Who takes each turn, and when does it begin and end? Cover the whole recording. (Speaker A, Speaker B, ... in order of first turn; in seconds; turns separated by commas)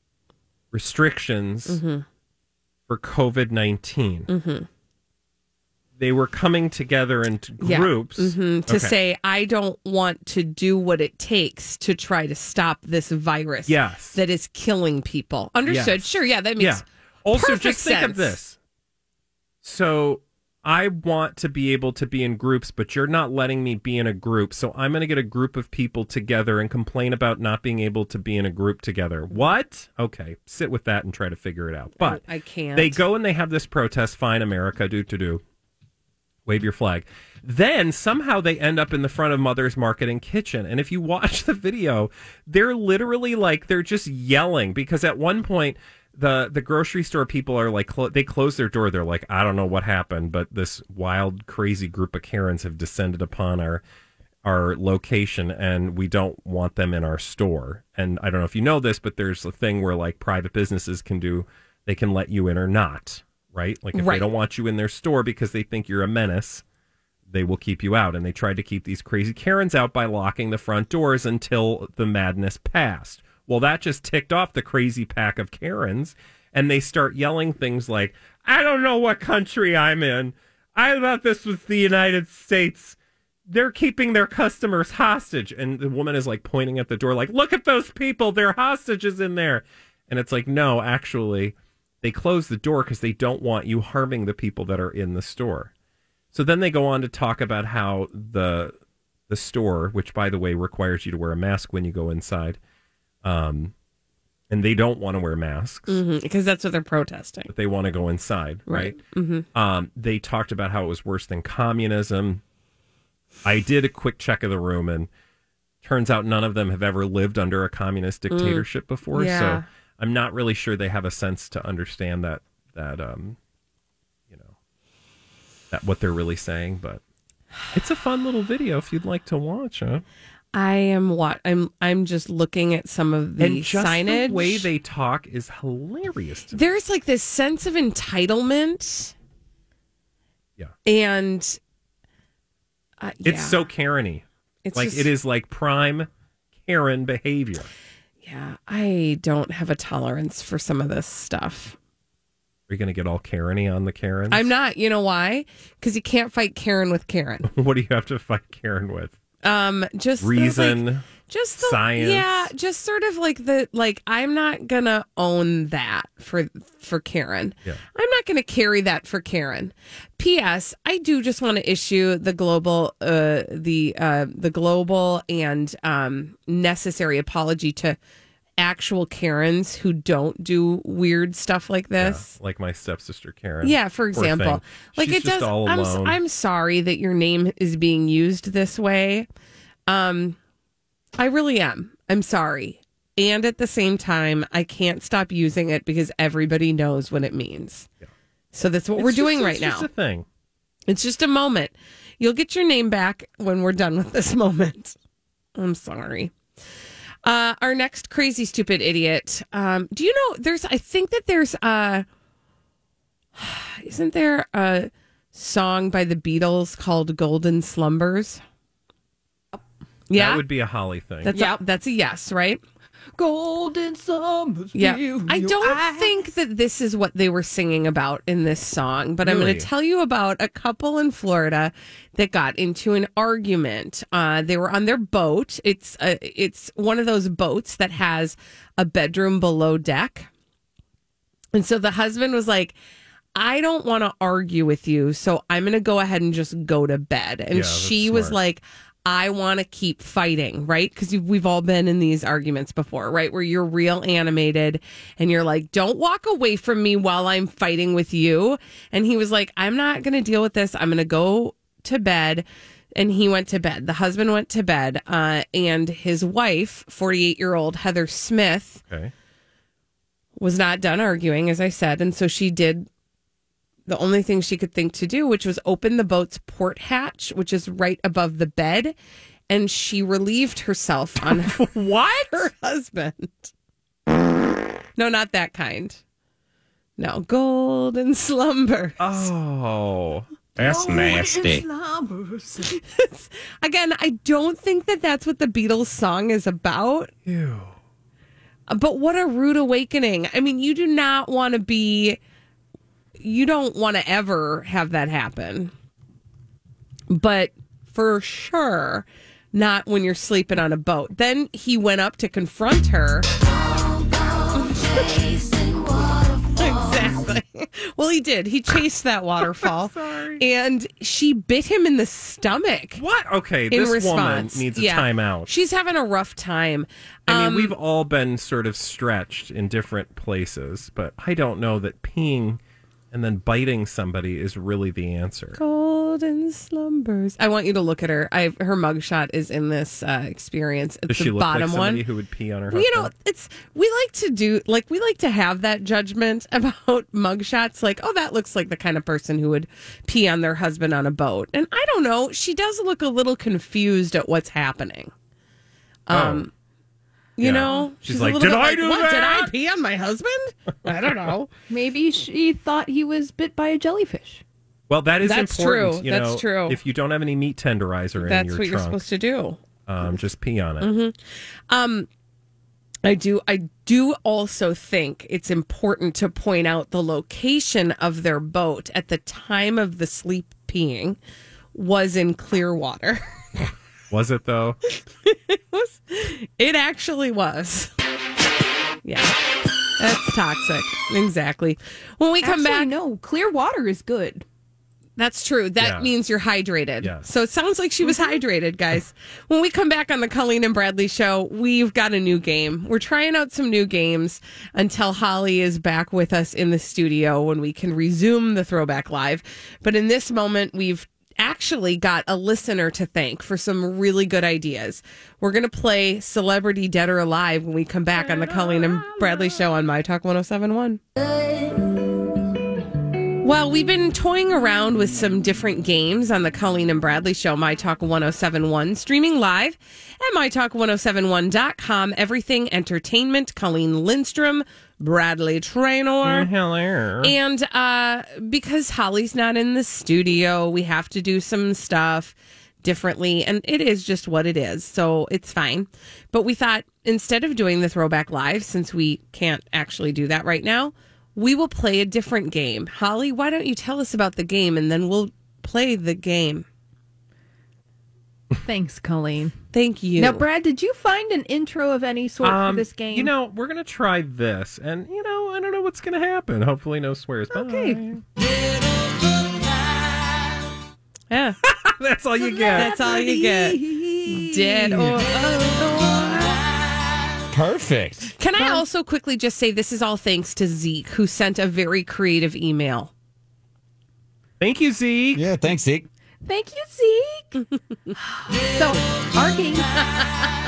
Speaker A: 0.7-1.8, Speaker B: 1.7-2.0, Speaker A: 2.9-4.3, Speaker B: 4.3-4.7, Speaker A: 6.0-8.9, Speaker B: 7.6-18.4, Speaker A: 13.7-14.2, Speaker A: 15.7-16.1, Speaker A: 16.6-18.6, Speaker A: 19.6-32.2, Speaker B: 32.0-33.0, Speaker A: 32.8-35.4, Speaker A: 36.5-53.8, Speaker A: 54.4-66.6, Speaker B: 63.9-64.3, Speaker A: 67.3-83.0, Speaker A: 83.5-95.7, Speaker A: 96.3-98.8, Speaker A: 99.3-102.6, Speaker A: 103.2-103.7, Speaker A: 104.5-106.0, Speaker B: 105.9-107.5, Speaker A: 107.5-109.0, Speaker B: 108.7-109.5, Speaker A: 109.5-112.4, Speaker A: 113.4-115.1, Speaker A: 115.8-123.4, Speaker B: 118.3-119.7, Speaker A: 125.7-127.0, Speaker A: 127.7-130.0, Speaker B: 130.5-134.7, Speaker A: 133.4-136.6, Speaker B: 136.5-139.1, Speaker B: 140.9-141.6, Speaker B: 143.0-143.7, Speaker A: 143.2-146.1, Speaker B: 144.7-145.1, Speaker A: 146.6-147.7, Speaker B: 148.2-151.8, Speaker A: 152.7-154.5, Speaker B: 154.3-157.5, Speaker A: 157.4-159.1, Speaker B: 159.4-178.0, Speaker A: 160.2-162.5, Speaker B: 178.6-182.3, Speaker A: 182.0-186.2, Speaker B: 183.6-189.3, Speaker B: 189.9-190.4, Speaker B: 191.2-197.9, Speaker B: 198.5-199.9, Speaker A: 199.0-200.3, Speaker B: 200.9-205.0, Speaker B: 205.6-206.3, Speaker B: 207.2-212.1, Speaker B: 213.3-218.4, Speaker B: 220.1-220.4, Speaker A: 220.1-221.3, Speaker B: 221.2-222.6, Speaker C: 221.3-221.6, Speaker C: 223.2-226.3, Speaker B: 224.8-240.3, Speaker A: 229.2-229.7, Speaker B: 241.5-242.8, Speaker B: 243.3-268.8, Speaker A: 247.5-248.4, Speaker B: 270.4-272.9, Speaker B: 273.9-279.0, Speaker B: 279.5-283.5, Speaker A: 281.2-282.5, Speaker B: 285.0-286.0, Speaker B: 287.0-289.3, Speaker A: 289.0-290.3, Speaker C: 290.6-292.8, Speaker D: 290.6-291.6, Speaker B: 292.7-297.1, Speaker A: 297.3-297.7, Speaker B: 298.7-302.2, Speaker B: 303.2-305.7, Speaker B: 307.1-313.3, Speaker B: 314.6-315.8, Speaker B: 316.5-323.0, Speaker A: 319.6-320.4, Speaker A: 323.0-325.5, Speaker B: 323.7-327.8, Speaker A: 327.3-332.6, Speaker A: 333.1-335.6, Speaker B: 335.6-342.0, Speaker A: 341.1-343.1, Speaker B: 342.7-355.1, Speaker B: 356.1-356.5, Speaker A: 356.1-356.5, Speaker B: 357.4-361.5, Speaker A: 357.4-359.5, Speaker C: 361.7-364.4, Speaker A: 364.9-369.0, Speaker B: 365.2-366.8, Speaker B: 368.2-369.6, Speaker A: 369.9-370.9, Speaker B: 370.8-371.1, Speaker B: 371.7-372.1, Speaker B: 373.0-381.2, Speaker B: 381.7-383.2, Speaker A: 384.1-384.8, Speaker B: 385.2-387.9, Speaker B: 389.1-389.4, Speaker B: 390.0-392.9, Speaker C: 392.4-394.4, Speaker B: 395.2-421.0, Speaker A: 395.8-396.1, Speaker A: 397.0-397.3, Speaker C: 398.1-398.4, Speaker B: 423.4-436.5, Speaker A: 436.2-437.4, Speaker B: 437.2-456.6, Speaker C: 458.6-459.6, Speaker B: 459.7-460.4, Speaker C: 460.2-463.3, Speaker A: 462.4-468.2, Speaker C: 467.5-468.0, Speaker B: 471.3-471.6, Speaker A: 471.6-473.0, Speaker C: 472.4-475.0, Speaker B: 472.8-476.6, Speaker D: 477.5-478.3, Speaker B: 478.4-483.1, Speaker C: 478.6-478.9, Speaker A: 484.6-485.5, Speaker D: 485.3-486.1, Speaker C: 486.4-487.6, Speaker C: 488.6-490.0